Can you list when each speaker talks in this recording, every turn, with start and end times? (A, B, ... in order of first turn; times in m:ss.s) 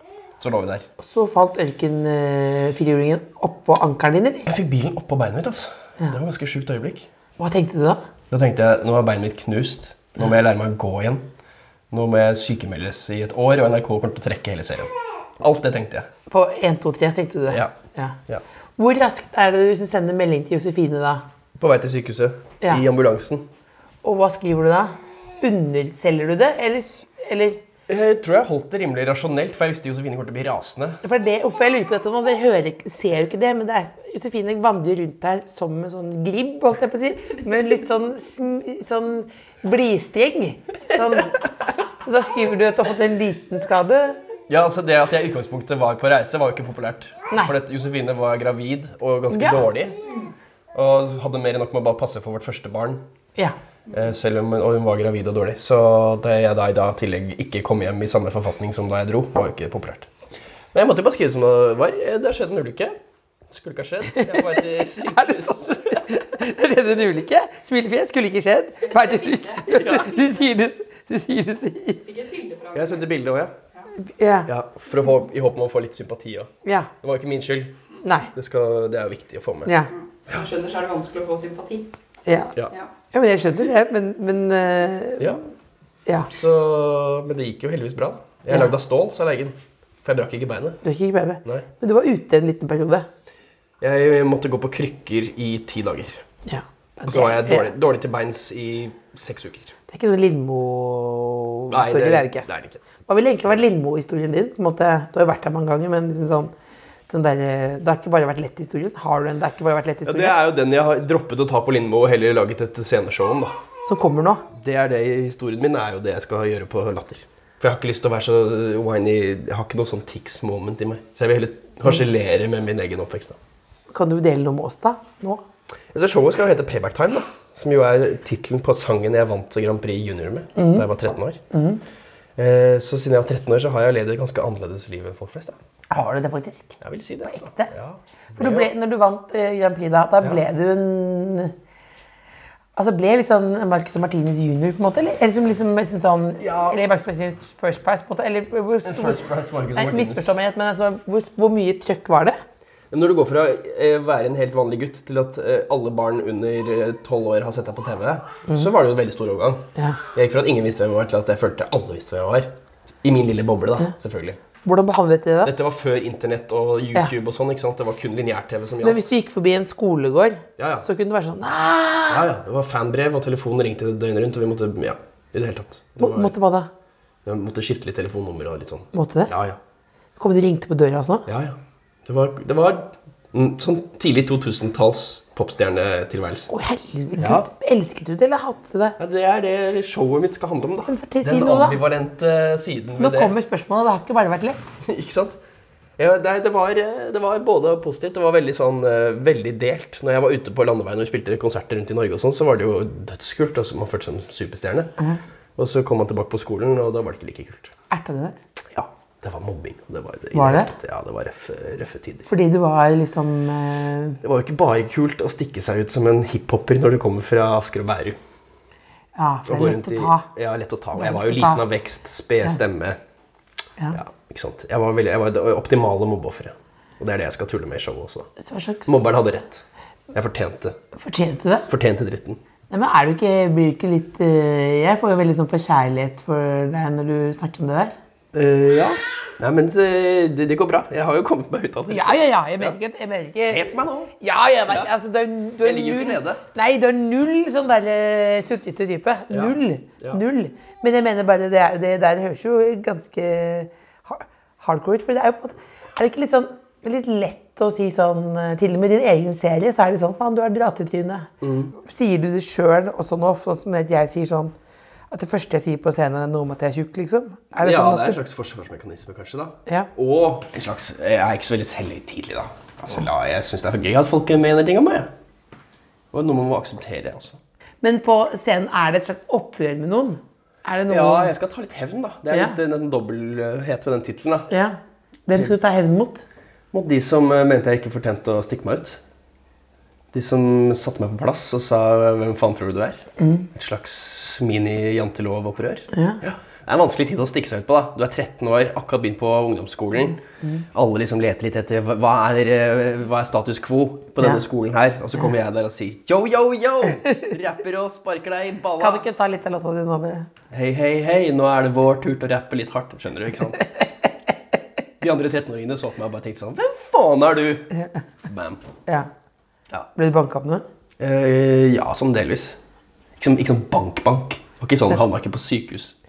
0:00.4-0:00.9 A
0:01.0-0:04.5 B
0:04.5-0:07.1 A
0:07.4-0:08.0 B
0:08.3-0:11.3 A
0:11.9-0:16.1 A
0:16.3-0:18.2 B
0:17.5-0:17.8 A
0:18.8-0:21.2 B
0:21.6-0:23.5 A
0:24.0-0:27.6 B
0:27.9-0:31.0 A
0:31.0-0:41.5 B
0:42.0-0:44.2 B
0:44.5-0:50.0 A
0:49.3-0:49.6 B
0:50.7-0:53.0 A
0:53.9-1:00.1 A
1:00.7-1:03.0 A
1:03.5-1:06.1 A
1:04.1-1:12.0 B
1:08.8-1:10.5 C
1:09.7-1:10.2 A
1:12.0-1:13.1 C
1:12.7-1:13.5 A
1:14.0-1:14.5 B
1:14.5-1:16.5 A
1:16.6-1:16.9 B
1:17.0-1:17.7 A
1:18.0-1:18.3 B
1:18.3-1:19.8 A
1:19.9-1:21.9 C
1:22.3-1:22.5 B
1:23.1-1:25.4 B
1:26.1-1:26.3 B
1:26.3-1:30.8 A
1:30.8-1:33.1 B
1:33.8-1:36.2 A
1:36.5-1:37.7 B
1:37.1-1:39.7 A
1:39.9-1:42.5 B
1:41.7-1:42.8 A
1:43.1-1:46.5 B
1:47.1-1:50.4 B
1:50.0-1:53.6 A
1:53.8-1:54.5 B
1:54.5-2:03.4 A
2:03.9-2:05.4 B
2:05.9-2:11.4 A
2:10.6-2:10.9 B
2:11.5-2:11.8 B
2:12.4-2:15.6 A
2:15.9-2:17.7 B
2:16.8-2:18.7 A
2:18.4-2:21.5 B
2:22.8-2:32.4 B
2:26.4-2:26.8 A
2:28.8-2:30.3 A
2:32.9-2:42.5 A
2:43.0-2:44.4 A
2:44.6-2:45.5 B
2:45.4-2:49.1 A
2:48.8-2:52.3 B
2:50.6-2:50.9 A
2:52.1-2:56.3 A
2:56.0-2:56.7 B
2:57.2-2:59.6 A
2:58.9-2:59.3 B
3:00.2-3:01.3 B
3:01.3-3:06.5 A
3:06.5-3:09.0 B
3:07.2-3:07.5 A
3:09.0-3:13.3 A
3:10.9-3:11.8 B
3:13.0-3:14.8 B
3:14.8-3:15.4 A
3:16.0-3:24.9 A
3:25.6-3:27.7 A
3:27.9-3:28.4 B
3:28.7-3:32.3 A
3:30.3-3:30.7 B
3:32.3-3:34.2 B
3:34.2-3:38.2 A
3:39.2-3:40.3 B
3:39.5-3:43.0 A
3:41.0-3:41.6 B
3:43.9-3:48.3 A
3:48.4-3:49.1 B
3:48.9-3:50.8 A
3:51.0-3:51.7 B
3:51.7-3:52.4 A
3:52.7-3:57.9 B
3:58.3-4:02.8 A
4:01.9-4:24.5 B
4:03.4-4:04.1 A
4:05.6-4:06.4 A
4:09.3-4:10.2 A
4:21.4-4:21.7 A
4:25.1-4:28.2 B
4:27.6-4:35.1 A
4:36.1-4:37.4 A
4:37.8-4:41.3 B
4:40.9-4:44.5 A
4:42.3-4:42.6 B
4:44.5-4:44.8 B
4:45.3-4:46.3 B
4:46.7-4:49.0 A
4:50.1-5:00.2 A
4:53.2-4:53.5 B
4:55.9-4:56.2 B
5:00.7-5:09.1 A
5:08.8-5:10.3 B
5:10.5-5:13.7 A
5:15.0-5:17.7 A
5:18.2-5:18.6 A
5:20.0-5:20.6 B
5:21.0-5:22.6 A
5:23.2-5:26.0 A